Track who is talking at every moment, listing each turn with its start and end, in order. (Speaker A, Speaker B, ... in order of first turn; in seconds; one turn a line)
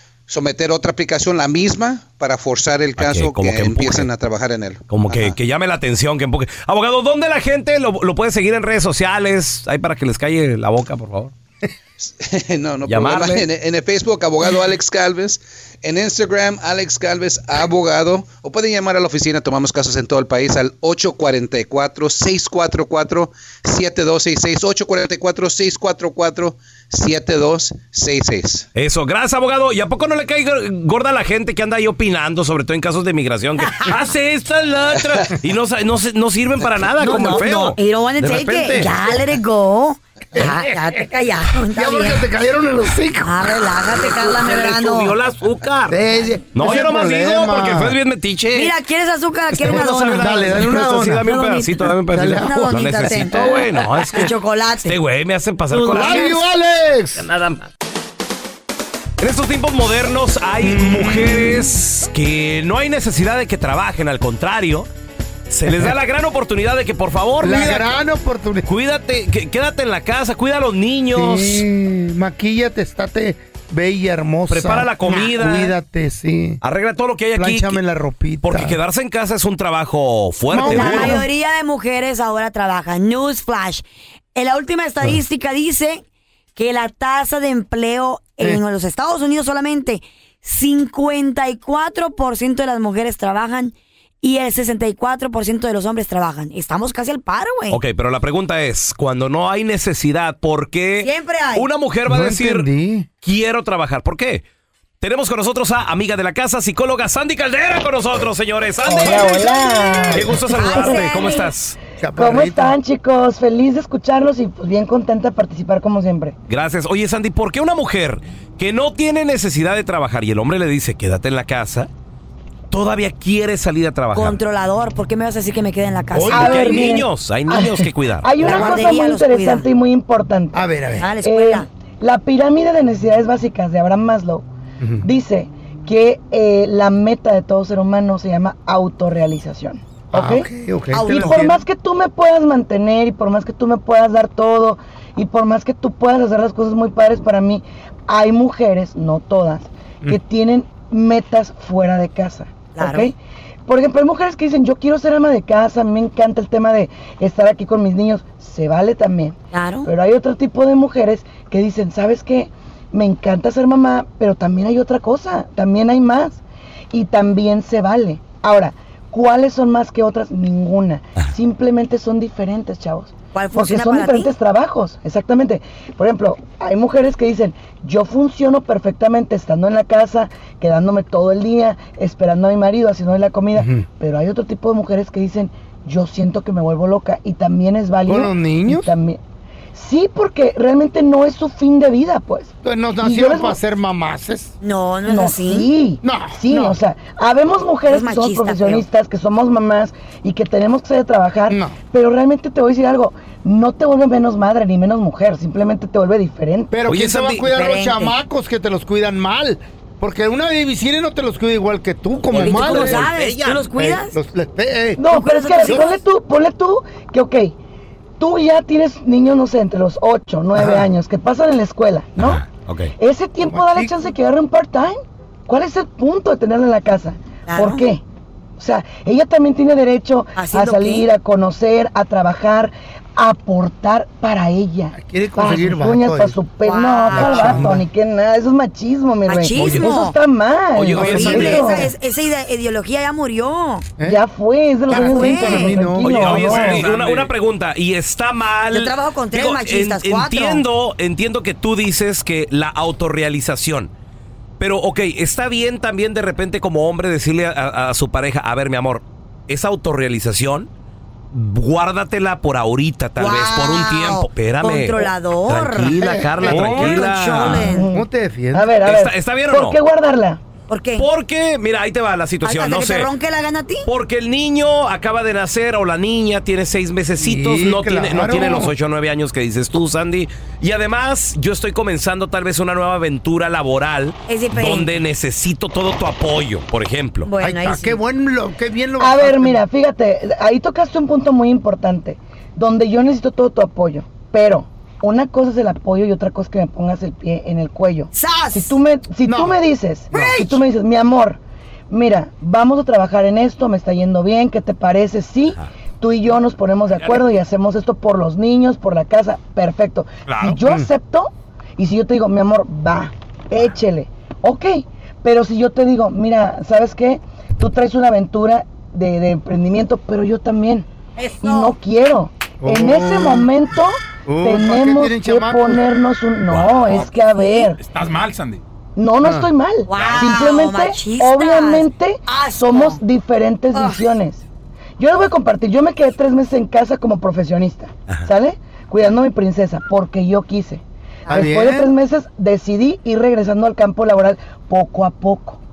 Speaker A: 0.3-5.3
Speaker B: 3.0-4.1
Speaker B: 4.9-11.3
Speaker A: 12.0-28.7
Speaker B: 12.9-13.4
Speaker B: 28.8-37.8
Speaker C: 37.0-42.2
Speaker D: 38.2-39.0
Speaker D: 41.7-44.0
Speaker C: 43.2-45.1
Speaker B: 44.1-46.0
Speaker D: 45.9-48.0
Speaker B: 46.5-48.7
Speaker C: 48.5-50.7
Speaker B: 49.5-54.3
Speaker D: 49.7-51.3
Speaker C: 51.2-55.0
Speaker D: 52.1-53.2
Speaker B: 54.8-56.4
Speaker C: 55.7-56.4
Speaker D: 55.9-57.3
Speaker B: 57.2-57.7
Speaker B: 59.2-64.9
Speaker D: 60.6-61.7
Speaker B: 65.5-67.9
Speaker D: 67.4-68.7
Speaker B: 68.6-71.6
Speaker D: 71.1-76.6
Speaker B: 74.5-75.8
Speaker B: 76.6-77.8
Speaker D: 77.3-78.8
Speaker B: 78.4-81.2
Speaker D: 80.5-81.3
Speaker C: 80.5-83.8
Speaker C: 84.3-86.0
Speaker C: 86.5-97.8
Speaker B: 97.7-102.7
Speaker C: 101.0-101.7
Speaker D: 102.0-103.1
Speaker B: 103.2-104.4
Speaker B: 105.0-109.6
Speaker E: 108.8-111.0
Speaker C: 109.0-111.5
Speaker B: 110.1-111.8
Speaker D: 112.0-112.8
Speaker E: 112.1-116.3
Speaker B: 116.5-121.9
Speaker B: 122.7-124.4
Speaker C: 124.1-126.8
Speaker D: 126.1-127.0
Speaker B: 126.2-128.3
Speaker E: 126.3-130.6
Speaker C: 128.4-129.7
Speaker D: 128.4-128.9
Speaker D: 130.5-131.1
Speaker C: 131.0-131.7
Speaker E: 131.2-134.4
Speaker D: 134.8-135.0
Speaker E: 135.0-140.5
Speaker D: 140.1-141.6
Speaker C: 140.9-141.5
Speaker E: 141.1-153.1
Speaker C: 152.8-153.1
Speaker E: 153.7-166.4
Speaker C: 159.5-159.9
Speaker E: 166.9-189.2
Speaker C: 173.3-174.3
Speaker D: 183.6-183.8
Speaker D: 188.1-188.9
Speaker E: 189.7-193.6
Speaker D: 192.6-194.5
Speaker C: 194.6-195.7
Speaker E: 195.1-206.7
Speaker D: 196.0-196.8
Speaker C: 197.9-198.8
Speaker D: 201.5-201.8
Speaker D: 206.7-213.1
Speaker B: 206.9-207.4
Speaker C: 207.4-208.1
Speaker C: 212.3-214.2
Speaker B: 212.3-213.7
Speaker D: 213.8-215.0
Speaker E: 215.0-217.5
Speaker C: 215.0-216.0
Speaker E: 218.2-222.4
Speaker D: 220.6-220.9
Speaker B: 222.2-222.9
Speaker E: 223.0-228.0
Speaker D: 223.4-223.9
Speaker C: 227.5-227.9
Speaker E: 228.6-241.9
Speaker C: 230.3-231.1
Speaker D: 234.9-236.4
Speaker C: 236.6-237.7
Speaker D: 237.1-237.8
Speaker C: 239.2-240.2
Speaker D: 239.6-239.8
Speaker B: 240.8-241.8
Speaker C: 240.9-243.8
Speaker D: 241.0-241.7
Speaker E: 244.0-246.8
Speaker C: 244.9-245.8
Speaker D: 244.9-246.7
Speaker B: 246.0-253.9
Speaker F: 246.3-247.3
Speaker C: 248.7-250.6
Speaker B: 254.6-260.7
Speaker B: 261.3-267.7
Speaker C: 263.2-267.9
Speaker D: 266.0-268.7
Speaker F: 266.5-266.8
Speaker E: 267.6-270.4
Speaker B: 268.8-269.8
Speaker C: 270.7-271.1
Speaker B: 271.0-273.1
Speaker C: 272.4-273.9
Speaker B: 273.9-287.3
Speaker D: 277.2-278.7
Speaker C: 284.3-284.9
Speaker C: 287.2-288.0
Speaker D: 287.4-289.6
Speaker E: 289.0-320.9
Speaker C: 298.1-298.7
Speaker D: 299.2-299.6
Speaker D: 300.1-300.4
Speaker C: 300.1-300.6
Speaker F: 310.3-310.6
Speaker C: 321.2-321.8
Speaker E: 321.4-327.8
Speaker D: 322.6-323.5
Speaker D: 324.2-325.8
Speaker B: 326.5-327.0
Speaker C: 327.4-327.7
Speaker F: 327.8-328.6
Speaker E: 328.9-334.4
Speaker D: 329.2-329.5
Speaker C: 329.9-333.0
Speaker F: 329.9-330.4
Speaker C: 333.7-334.0
Speaker E: 335.0-345.6
Speaker D: 341.3-341.9